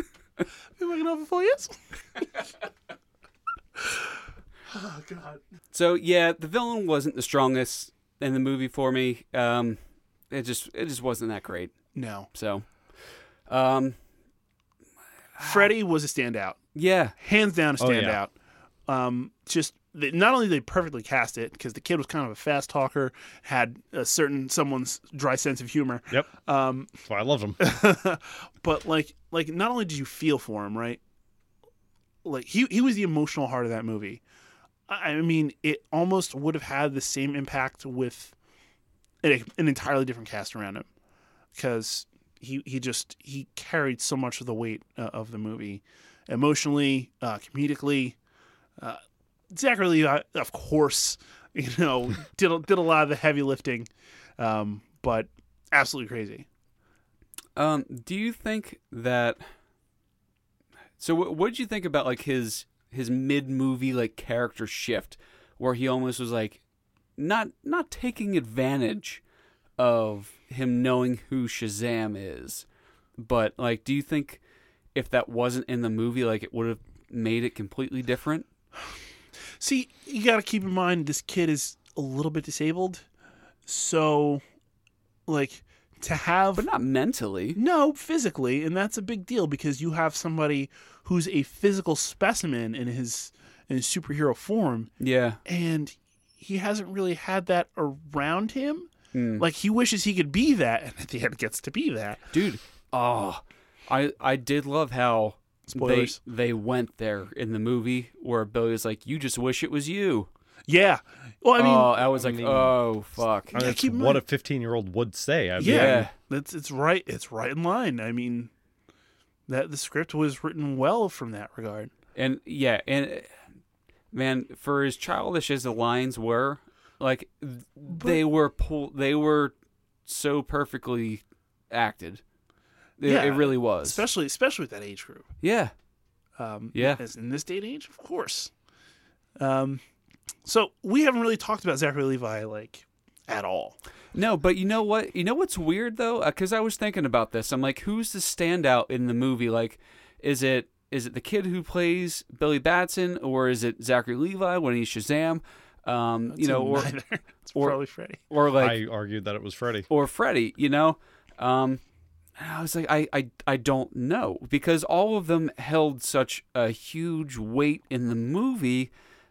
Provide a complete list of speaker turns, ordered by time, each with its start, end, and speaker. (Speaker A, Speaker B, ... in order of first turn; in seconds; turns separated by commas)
Speaker A: 0.8-2.4, Speaker A: 4.7-5.4, Speaker B: 5.7-9.8, Speaker B: 10.3-11.7, Speaker A: 11.9-12.3, Speaker B: 12.3-12.7, Speaker B: 13.5-14.0, Speaker B: 15.4-15.7, Speaker A: 15.4-16.6, Speaker B: 16.8-17.1, Speaker A: 17.2-18.3, Speaker C: 17.8-18.2, Speaker A: 18.9-26.9, Speaker C: 27.0-27.6, Speaker A: 27.6-31.0, Speaker A: 32.2-34.2, Speaker A: 34.9-38.4, Speaker A: 39.2-40.9, Speaker A: 41.5-48.2, Speaker A: 49.5-56.5, Speaker B: 57.6-59.4, Speaker B: 61.0-66.6, Speaker B: 67.2-69.2, Speaker B: 69.8-72.7, Speaker B: 73.2-74.4, Speaker B: 75.0-78.5, Speaker A: 79.6-83.0, Speaker A: 83.7-84.4, Speaker A: 85.3-86.7, Speaker B: 86.6-87.6, Speaker A: 87.5-94.9, Speaker B: 95.0-95.4, Speaker A: 95.5-102.2, Speaker B: 99.1-99.5, Speaker B: 102.3-110.3, Speaker A: 105.7-106.2, Speaker A: 110.7-111.9, Speaker B: 111.6-113.6, Speaker C: 112.1-112.8, Speaker A: 113.5-114.2, Speaker C: 113.5-116.1, Speaker A: 115.6-118.5, Speaker B: 115.6-116.1, Speaker A: 119.5-121.9, Speaker B: 122.2-123.3, Speaker B: 124.1-129.5, Speaker A: 127.9-128.2, Speaker B: 130.1-132.2, Speaker B: 133.0-134.0, Speaker A: 133.0-135.3, Speaker B: 135.4-135.7, Speaker A: 136.4-138.5, Speaker B: 136.7-137.0, Speaker A: 139.4-139.8, Speaker A: 140.5-143.8, Speaker B: 144.1-156.9, Speaker A: 156.3-158.2, Speaker B: 158.3-158.8, Speaker C: 158.6-159.9, Speaker B: 159.9-161.8, Speaker B: 162.4-168.9